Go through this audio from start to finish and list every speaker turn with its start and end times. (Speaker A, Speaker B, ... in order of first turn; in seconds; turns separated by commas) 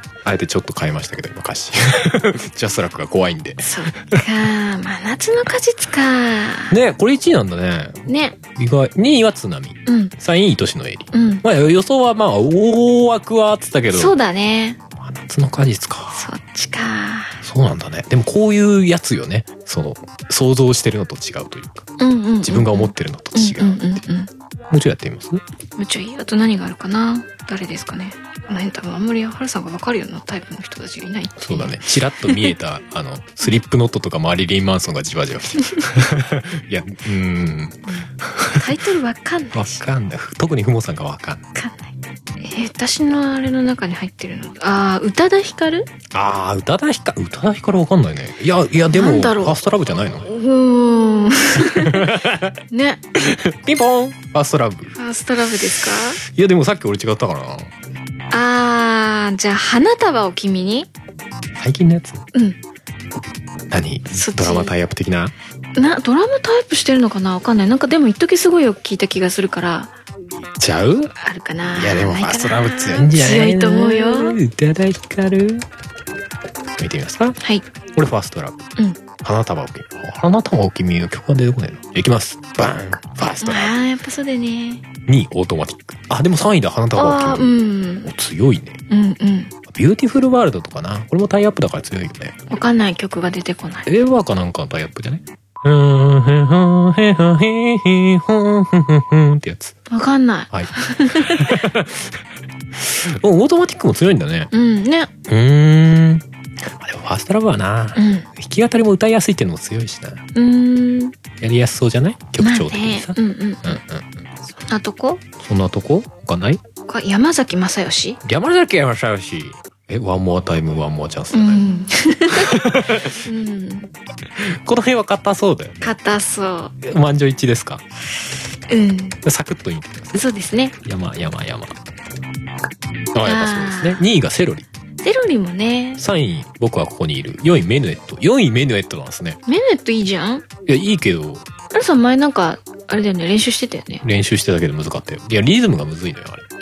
Speaker A: 0.2-4.2, Speaker B: 3.6-6.8, Speaker A: 6.7-14.1, Speaker B: 8.1-8.4, Speaker B: 9.8-10.1, Speaker B: 11.1-11.4, Speaker B: 13.9-14.8, Speaker A: 15.0-16.3, Speaker B: 16.1-17.4, Speaker A: 17.4-21.9, Speaker B: 22.0-24.3, Speaker A: 22.4-23.9, Speaker A: 24.7-25.4, Speaker B: 25.8-32.5, Speaker A: 31.4-38.7, Speaker B: 37.9-39.8, Speaker A: 39.5-41.5, Speaker B: 41.5-45.9, Speaker A: 46.1-50.3, Speaker B: 48.9-52.2, Speaker A: 51.6-52.6, Speaker B: 52.7-53.0, Speaker A: 53.1-55.0, Speaker B: 55.0-56.2, Speaker A: 56.2-57.7, Speaker B: 58.3-60.9, Speaker A: 61.5-62.2, Speaker A: 63.7-65.3, Speaker B: 64.1-64.7, Speaker B: 65.8-69.9, Speaker A: 70.4-71.1, Speaker B: 71.1-74.4, Speaker A: 71.7-75.7, Speaker A: 76.8-77.4, Speaker B: 77.4-77.6, Speaker A: 77.9-78.6, Speaker A: 79.2-83.7, Speaker B: 83.4-84.8, Speaker A: 85.0-88.8, Speaker B: 86.9-88.1, Speaker B: 88.9-89.5, Speaker A: 89.7-92.3, Speaker B: 92.5-93.9, Speaker A: 93.8-99.8, Speaker B: 99.9-101.6, Speaker A: 100.5-102.2, Speaker A: 102.8-104.5, Speaker B: 104.5-105.1, Speaker A: 105.3-110.2, Speaker B: 107.9-108.3, Speaker B: 110.3-111.2, Speaker A: 111.4-114.2, Speaker B: 112.4-113.8, Speaker B: 114.5-115.2, Speaker A: 115.4-116.6, Speaker B: 116.8-118.2, Speaker A: 118.2-121.7, Speaker B: 121.3-122.5, Speaker A: 122.3-123.2, Speaker B: 123.2-123.9, Speaker A: 124.4-125.9, Speaker B: 125.8-126.7, Speaker A: 126.8-127.8, Speaker B: 128.7-129.2, Speaker A: 129.2-130.2, Speaker B: 130.1-130.7, Speaker A: 130.8-131.8, Speaker A: 133.1-134.7, Speaker B: 133.2-134.1, Speaker B: 135.0-136.0, Speaker A: 136.0-139.4, Speaker B: 139.4-140.4, Speaker A: 140.7-141.4, Speaker B: 141.7-144.0, Speaker A: 144.0-146.5